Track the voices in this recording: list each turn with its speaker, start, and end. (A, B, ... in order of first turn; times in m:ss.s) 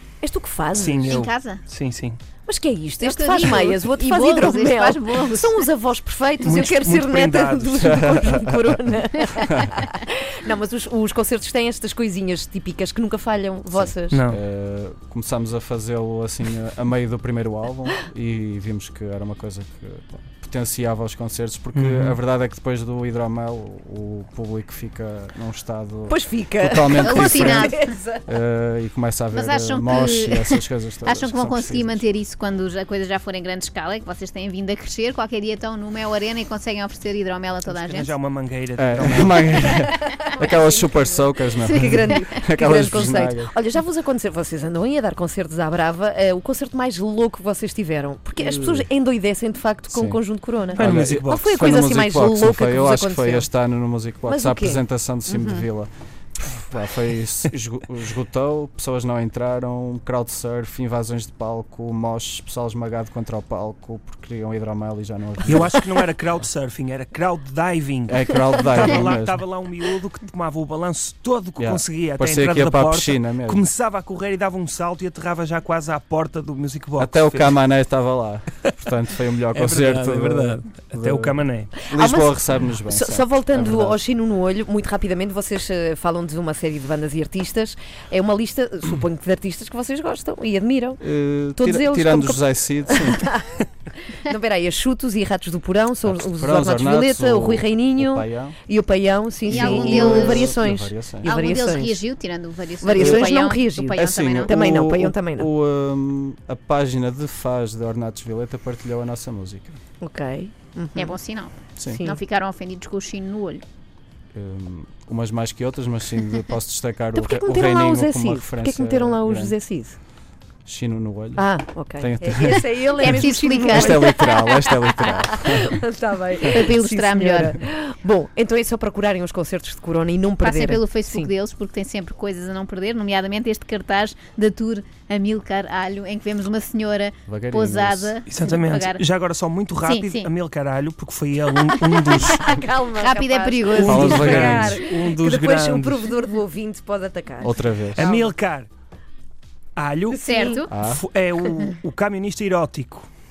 0:00.2-0:01.2 A
0:00.7-0:02.2 B
0:01.1-0:01.6 C
0:02.5-0:14.2 A
0:03.0-0:05.6 C
0:06.4-0:08.3 B
0:07.8-0:08.8 D
0:13.7-0:32.0 D
0:14.1-0:14.4 B
0:21.7-0:22.2 B
0:26.1-0:28.2 A
0:27.0-0:27.9 C
0:29.3-0:38.2 C
0:37.7-0:39.8 B
0:38.8-0:43.5 D
0:40.2-0:41.0 A
0:41.6-0:53.5 A
0:48.4-0:48.9 D
0:49.9-0:50.2 D
0:50.8-0:51.5 B
0:50.8-1:05.9 D
0:54.3-0:55.7 A
1:05.4-1:17.6 B
1:08.1-1:09.4 D
1:11.6-1:13.7 D
1:17.0-1:24.0 D
1:19.5-1:21.7 B
1:21.9-1:31.0 A
1:31.0-1:33.3 D
1:31.6-1:33.4 A
1:34.1-1:42.0 A
1:36.0-1:38.6 D
1:39.5-1:40.6 C
1:39.5-1:41.3 D
1:41.2-1:44.5 C
1:42.8-1:45.5 A
1:43.0-1:43.3 D
1:43.9-1:49.8 D
1:50.0-1:51.2 A
1:51.0-1:53.6 C
1:51.9-1:52.2 A
1:54.3-1:59.6 D
1:57.2-2:00.0 A
2:00.7-2:05.8 D
2:01.4-2:11.3 A
2:03.0-2:04.3 C
2:06.5-2:07.6 C
2:10.4-2:19.0 C
2:17.3-2:18.2 D
2:18.3-2:22.4 B
2:19.8-2:20.3 C
2:22.2-2:28.3 A
2:23.0-2:24.6 C
2:23.8-2:24.9 D
2:23.9-2:26.1 B
2:27.4-2:28.1 D
2:27.9-2:28.7 B
2:29.8-2:33.1 B
2:30.1-2:30.6 A
2:30.2-2:30.7 C
2:30.7-2:31.0 D